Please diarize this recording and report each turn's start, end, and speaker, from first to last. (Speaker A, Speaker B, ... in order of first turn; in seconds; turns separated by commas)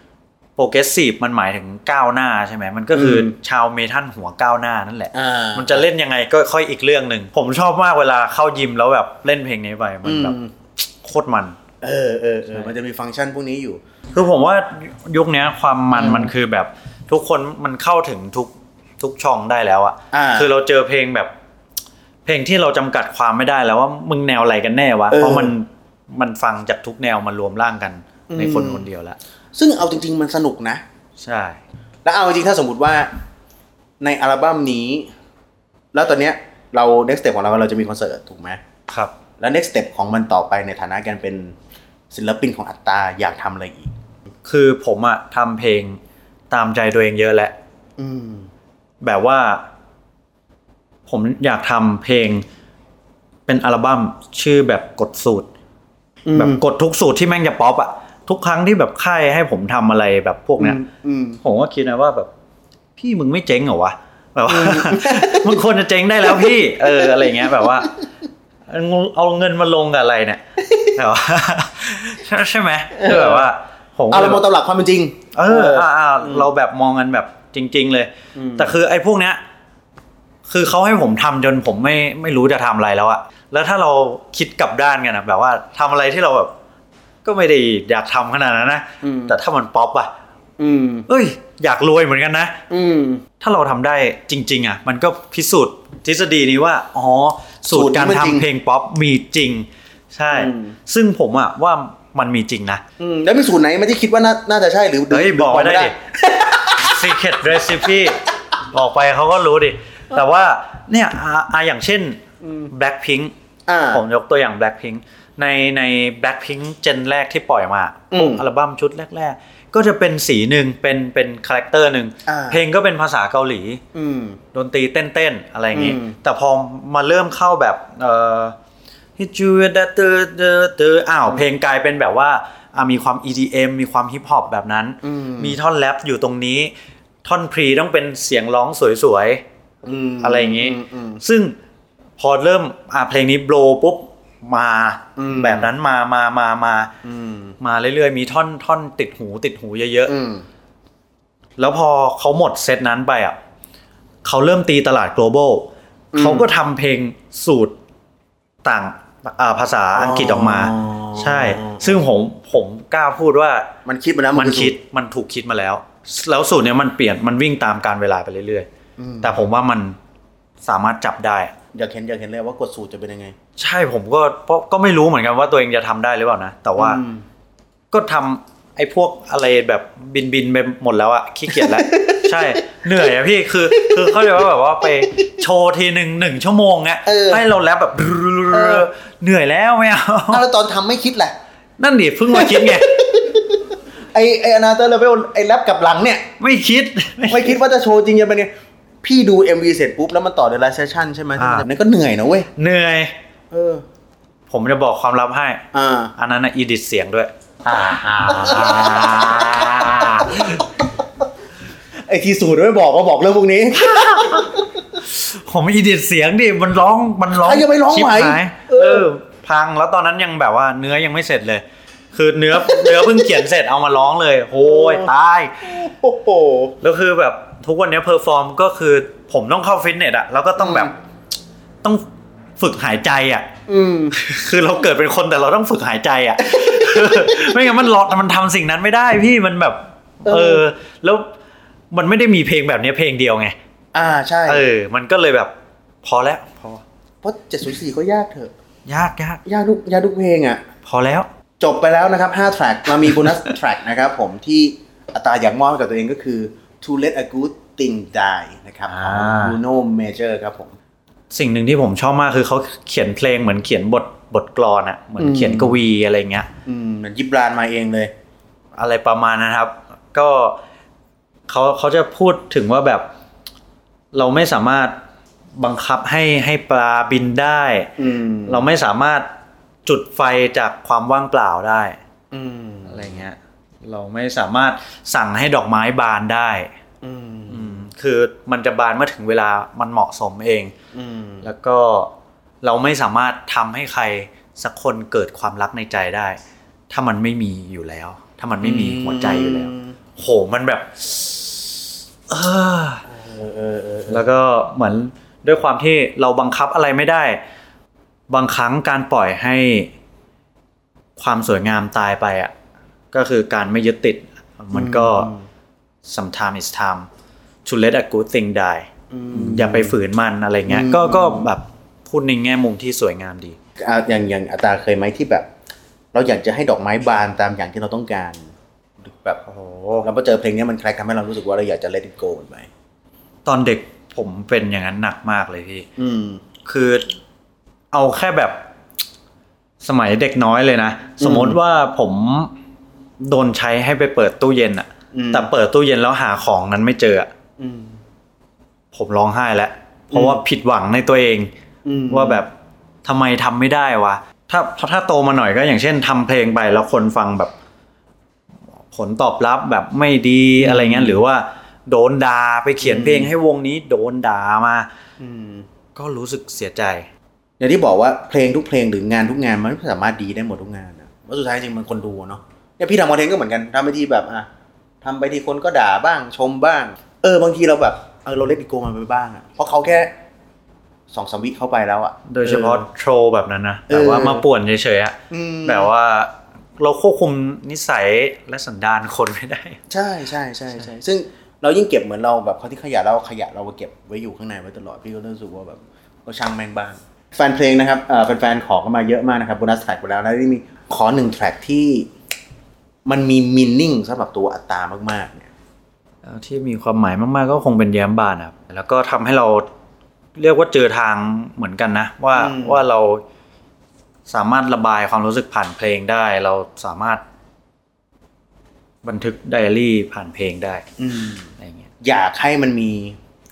Speaker A: 0.6-10.4, Speaker B: 2.9-3.3, Speaker B: 5.1-5.8, Speaker B: 10.0-10.5, Speaker A: 10.9-11.6, Speaker B: 11.8-13.8, Speaker A: 14.1-21.3, Speaker B: 15.9-16.3, Speaker B: 20.1-20.5, Speaker A: 22.2-29.2, Speaker B: 25.1-25.5, Speaker B: 28.3-28.9, Speaker B: 29.5-30.8, Speaker A: 31.2-31.6, Speaker B: 32.0-33.1, Speaker B: 34.0-35.1, Speaker B: 35.9-38.6, Speaker A: 38.9-39.1, Speaker B: 39.4-41.5, Speaker B: 42.1-43.9, Speaker A: 44.4-46.0, Speaker A: 46.5-47.5, Speaker B: 48.0-48.5, Speaker A: 49.0-49.6, Speaker A: 51.1-52.4, Speaker A: 53.5-55.5, Speaker B: 56.3-56.6, Speaker A: 56.3-60.8, Speaker B: 60.6-61.4, Speaker A: 61.4-62.3, Speaker A: 63.0-67.9, Speaker B: 64.5-65.6, Speaker B: 66.2-67.9, Speaker A: 68.7-74.4, Speaker B: 73.0-73.5, Speaker B: 74.1-76.5, Speaker A: 75.3-79.4, Speaker B: 78.3-78.7, Speaker A: 80.5-86.5, Speaker A: 87.2-90.1, Speaker B: 89.0-89.3, Speaker B: 90.6-91.1, Speaker A: 91.1-92.6, Speaker B: 92.7-93.2, Speaker A: 93.4-102.8, Speaker B: 97.7-98.5, Speaker B: 100.3-100.7, Speaker B: 103.0-107.0, Speaker A: 105.1-105.9, Speaker A: 106.8-113.3, Speaker B: 112.4-112.7, Speaker B: 113.7-114.0, Speaker A: 113.9-123.8, Speaker B: 118.1-118.4, Speaker B: 122.2-122.6, Speaker B: 123.9-124.4, Speaker A: 124.5-128.6, Speaker B: 125.7-126.2, Speaker A: 129.2-136.7, Speaker B: 135.0-135.6, Speaker A: 137.2-139.4, Speaker B: 139.8-141.2, Speaker A: 140.2-141.5, Speaker A: 142.2-146.9, Speaker B: 145.2-145.7, Speaker B: 147.0-147.6, Speaker A: 147.6-150.1, Speaker B: 150.1-150.4, Speaker A: 151.6-153.4, Speaker A: 154.2-157.8, Speaker B: 156.1-156.5, Speaker A: 158.6-163.7, Speaker B: 159.9-162.0, Speaker B: 163.8-164.7, Speaker A: 164.3-168.7, Speaker B: 169.0-169.4, Speaker A: 169.2-170.0, Speaker A: 170.6-171.5, Speaker B: 171.7-173.3, Speaker A: 173.6-177.0, Speaker B: 176.8-177.2, Speaker A: 177.9-190.4, Speaker B: 181.5-182.3, Speaker B: 183.7-184.4, Speaker B: 187.0-187.4, Speaker B: 188.5-188.9, Speaker B: 190.3-191.3, Speaker A: 191.8-192.9, Speaker B: 192.3-196.3, Speaker A: 196.4-197.6, Speaker B: 197.3-198.5, Speaker B: 199.0-202.5, Speaker A: 201.4-201.7, Speaker A: 202.6-203.1, Speaker B: 203.5-203.8, Speaker A: 204.5-207.3, Speaker B: 205.7-206.1, Speaker B: 207.6-211.0, Speaker A: 207.9-210.7, Speaker B: 212.0-214.8, Speaker A: 213.7-225.8, Speaker B: 217.3-219.1, Speaker B: 222.6-223.3, Speaker B: 224.6-226.7, Speaker A: 226.8-230.9, Speaker B: 230.6-230.9, Speaker A: 232.6-233.5, Speaker B: 233.7-234.2, Speaker A: 234.1-241.3, Speaker B: 236.5-237.8, Speaker B: 240.2-240.6, Speaker A: 241.9-243.5, Speaker B: 243.9-244.7, Speaker A: 244.4-245.5, Speaker A: 246.0-246.8, Speaker B: 247.2-248.5, Speaker A: 248.9-249.4, Speaker B: 249.4-250.6, Speaker A: 250.8-251.3, Speaker B: 251.6-260.8, Speaker A: 258.9-259.6, Speaker A: 261.3-266.5, Speaker B: 265.2-265.8, Speaker B: 266.6-268.1, Speaker A: 268.8-270.6, Speaker A: 271.5-273.1, Speaker A: 274.1-275.0, Speaker A: 275.6-277.9, Speaker B: 278.0-278.7, Speaker A: 278.4-279.3, Speaker A: 279.8-282.0, Speaker B: 282.3-283.2, Speaker A: 282.9-286.7, Speaker B: 287.0-287.8, Speaker A: 287.5-290.7, Speaker B: 290.9-291.4, Speaker A: 291.4-296.4, Speaker A: 296.9-303.0, Speaker B: 298.6-299.9, Speaker B: 303.1-304.2, Speaker A: 304.1-307.4, Speaker A: 308.3-309.9, Speaker A: 311.2-312.5, Speaker A: 313.1-315.3, Speaker B: 314.7-315.4, Speaker A: 316.0-317.1, Speaker A: 317.6-323.6, Speaker B: 319.1-319.9, Speaker B: 320.6-321.4, Speaker B: 323.8-325.5, Speaker B: 326.1-329.4, Speaker A: 329.4-330.1, Speaker B: 330.0-332.7, Speaker A: 333.4-335.9, Speaker B: 336.0-336.4, Speaker A: 336.6-337.1, Speaker A: 337.9-338.6, Speaker A: 339.8-342.5, Speaker B: 341.2-341.6, Speaker A: 343.2-347.3, Speaker B: 345.1-345.5, Speaker B: 347.6-348.0, Speaker A: 348.9-351.5, Speaker B: 350.1-350.4, Speaker B: 351.8-352.4, Speaker A: 352.1-352.5, Speaker A: 353.0-357.5, Speaker A: 358.9-364.9, Speaker B: 360.6-361.2, Speaker B: 362.8-363.3, Speaker B: 365.2-365.7, Speaker A: 365.9-367.1, Speaker B: 367.6-374.5, Speaker B: 375.0-380.1, Speaker B: 381.1-382.8, Speaker A: 382.3-389.8, Speaker B: 383.9-384.4, Speaker B: 385.3-385.9, Speaker B: 389.9-402.1, Speaker B: 403.1-405.5, Speaker A: 406.2-409.7, Speaker A: 410.4-413.2, Speaker B: 412.3-412.8, Speaker A: 414.3-417.2, Speaker A: 419.0-420.8, Speaker B: 421.0-423.2, Speaker A: 421.6-421.9